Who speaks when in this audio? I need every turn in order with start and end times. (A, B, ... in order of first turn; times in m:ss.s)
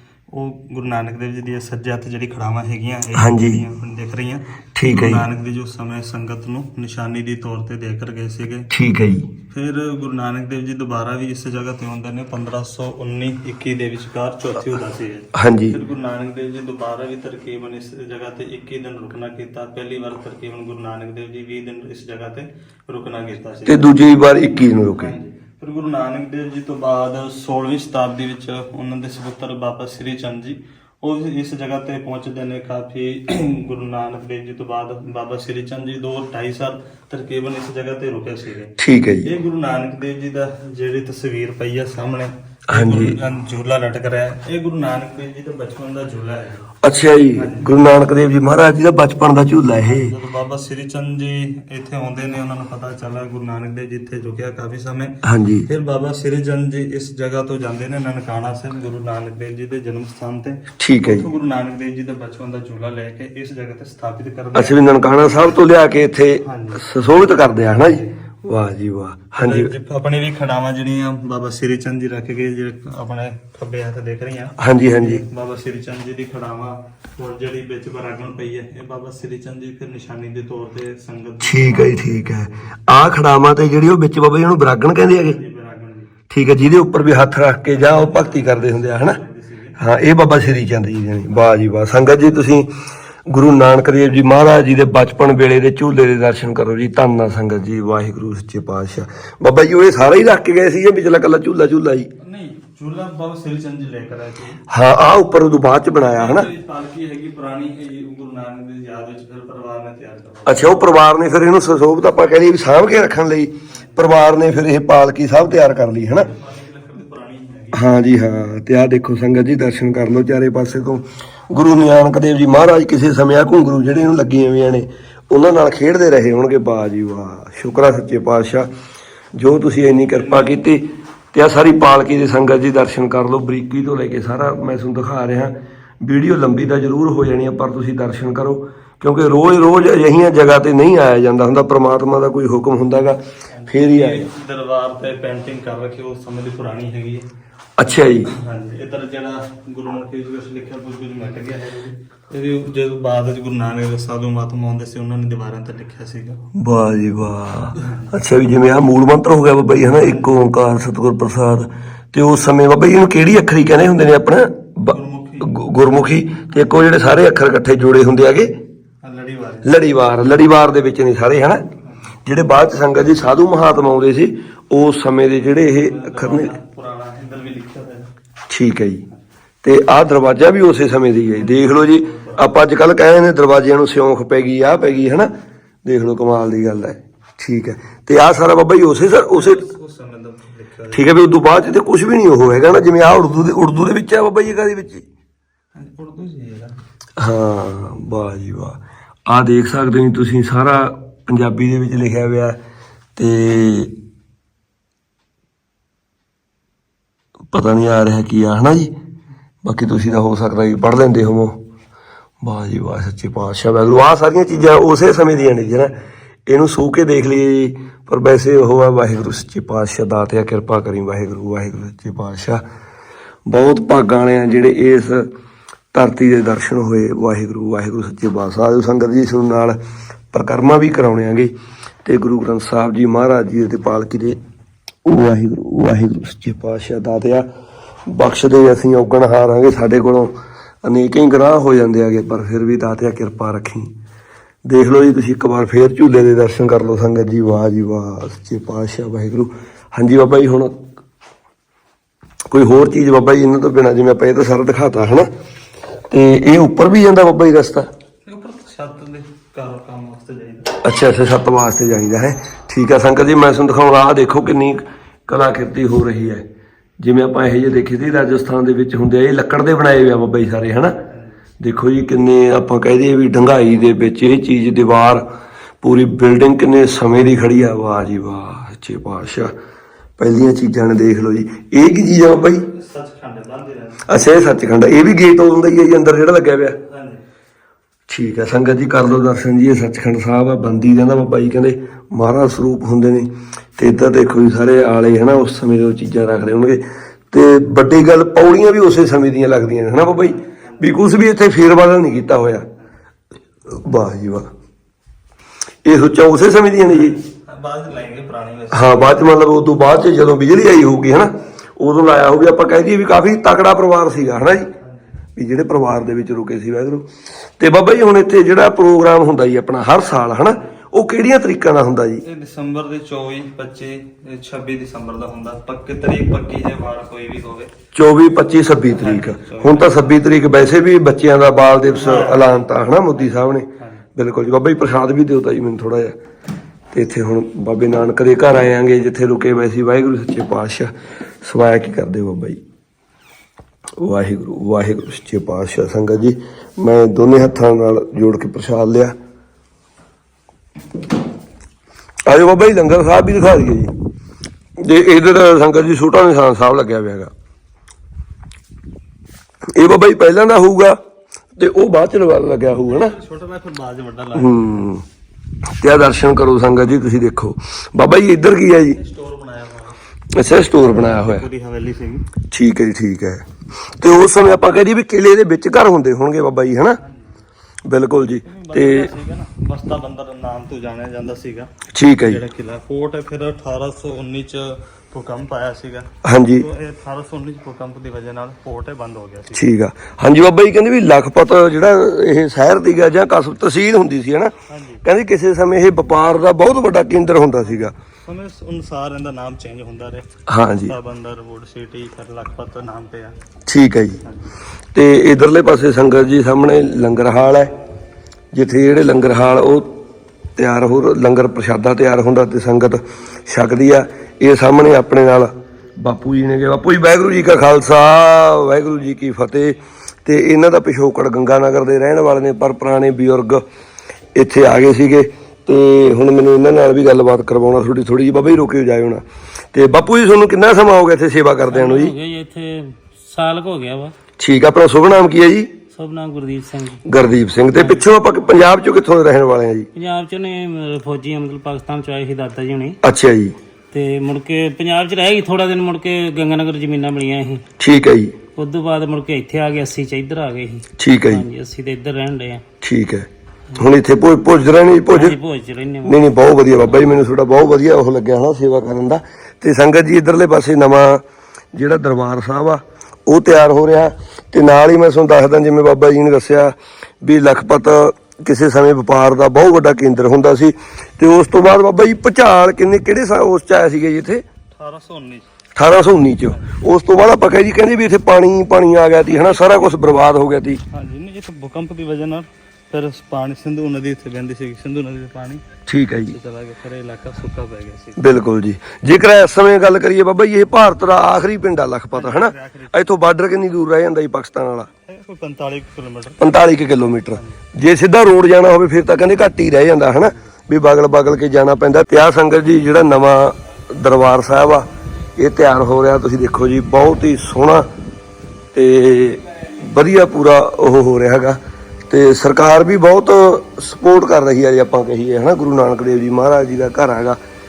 0:00.3-0:08.7 A
0:03.2-0:03.6 B
0:04.8-0:05.3 B
0:08.7-0:09.3 B
0:09.5-0:24.0 A
0:15.3-0:15.8 B
0:23.6-0:25.1 B
0:25.0-0:38.7 A
0:38.8-0:39.3 B
0:39.2-0:46.7 A
0:42.7-0:43.2 B
0:46.8-0:50.1 B
0:47.4-0:47.8 A
0:49.8-0:55.1 A
0:55.2-0:55.7 B
0:55.7-1:04.8 A
1:00.8-1:01.3 B
1:04.5-1:09.7 B
1:06.4-1:06.8 A
1:07.6-1:08.1 A
1:09.4-1:22.7 A
1:14.6-1:15.2 B
1:21.4-1:25.4 B
1:25.1-1:26.1 A
1:26.3-1:29.2 B
1:27.7-1:29.8 A
1:29.8-1:32.7 B
1:33.3-1:42.1 B
1:42.2-1:44.6 A
1:44.7-1:46.5 B
1:46.0-1:50.8 A
1:50.4-1:56.3 B
1:56.2-1:57.8 A
1:57.7-2:08.7 B
2:09.3-2:24.3 B
2:10.1-2:10.6 A
2:23.5-2:27.3 A
2:27.8-2:28.3 B
2:28.3-2:36.4 A
2:36.5-2:48.5 B
2:37.8-2:38.1 A
2:39.9-2:40.4 A
2:44.9-2:45.5 A
2:49.0-2:49.7 A
2:49.6-2:51.7 B
2:52.2-2:56.5 B
2:55.5-2:58.1 A
2:58.5-2:59.0 B
2:59.6-3:05.3 B
3:01.3-3:02.6 A
3:05.8-3:09.6 B
3:09.2-3:11.1 A
3:10.9-3:15.0 B
3:15.7-3:16.7 A
3:17.2-3:22.6 B
3:23.2-3:23.9 B
3:27.5-3:28.9 B
3:29.6-3:31.6 B
3:32.4-3:42.6 B
3:35.2-3:36.0 A
3:43.5-3:45.3 B
3:45.9-3:49.8 B
3:50.3-3:51.5 B
3:52.0-3:54.4 B
3:55.0-3:57.4 B
3:58.1-4:00.3 B
4:00.8-4:03.9 B
4:04.6-4:10.8 B
4:12.5-4:15.3 B
4:16.1-4:17.9 B
4:18.2-4:20.8 A
4:20.8-4:26.4 B
4:27.0-4:31.0 B
4:31.6-4:35.2 B
4:35.8-4:39.5 B
4:40.2-4:42.7 B
4:42.7-4:44.1 A
4:44.0-4:46.8 B
4:46.9-4:47.2 A
4:48.1-5:02.7 B
5:00.0-5:01.0 A
5:03.7-5:04.5 B
5:05.8-5:07.2 B
5:06.9-5:09.2 A
5:08.7-5:14.7 B
5:14.8-5:15.0 A
5:15.4-5:22.2 B
5:22.2-5:27.7 A
5:27.9-5:36.2 B
5:28.9-5:30.2 A
5:31.9-5:34.0 A
5:36.9-5:42.6 B
5:44.0-5:49.1 B
5:52.2-5:53.9 B
5:54.8-5:57.3 B
5:59.7-6:01.0 B
6:01.5-6:03.2 B
6:02.8-6:04.8 A
6:04.3-6:05.0 B
6:05.8-6:09.0 B
6:08.8-6:10.0 A
6:10.3-6:11.4 B
6:10.8-6:12.3 A
6:12.5-6:13.4 B
6:14.0-6:17.0 B
6:17.0-6:17.4 A
6:17.8-6:19.1 B
6:18.2-6:29.7 A
6:21.9-6:22.4 B
6:26.2-6:26.7 B
6:29.5-6:37.9 B
6:34.7-6:35.0 A
6:38.2-6:40.3 A
6:40.5-6:40.9 B
6:40.8-6:43.4 A
6:43.7-6:44.2 B
6:44.9-6:47.7 B
6:48.5-6:50.0 B
6:50.6-7:03.6 B
7:04.3-7:12.1 B
7:11.7-7:14.1 C
7:14.4-7:15.7 B
7:15.9-7:17.2 C
7:17.0-7:19.9 B
7:19.9-7:23.0 C
7:23.0-7:23.5 B
7:23.9-7:27.6 C
7:27.8-7:28.4 B
7:28.6-7:32.6 C
7:31.0-7:31.4 B
7:32.8-7:35.4 B
7:35.1-7:37.1 C
7:36.0-7:41.2 B
7:41.7-7:54.4 B
7:54.8-7:55.5 A
7:55.7-8:00.8 B
7:56.4-7:56.8 A
7:59.2-7:59.9 A
8:00.9-8:05.6 A
8:05.9-8:06.4 B
8:06.3-8:08.2 A
8:08.2-8:14.9 B
8:12.1-8:13.0 A
8:15.1-8:16.5 A
8:16.4-8:27.9 B
8:17.2-8:17.6 A
8:28.7-8:37.4 B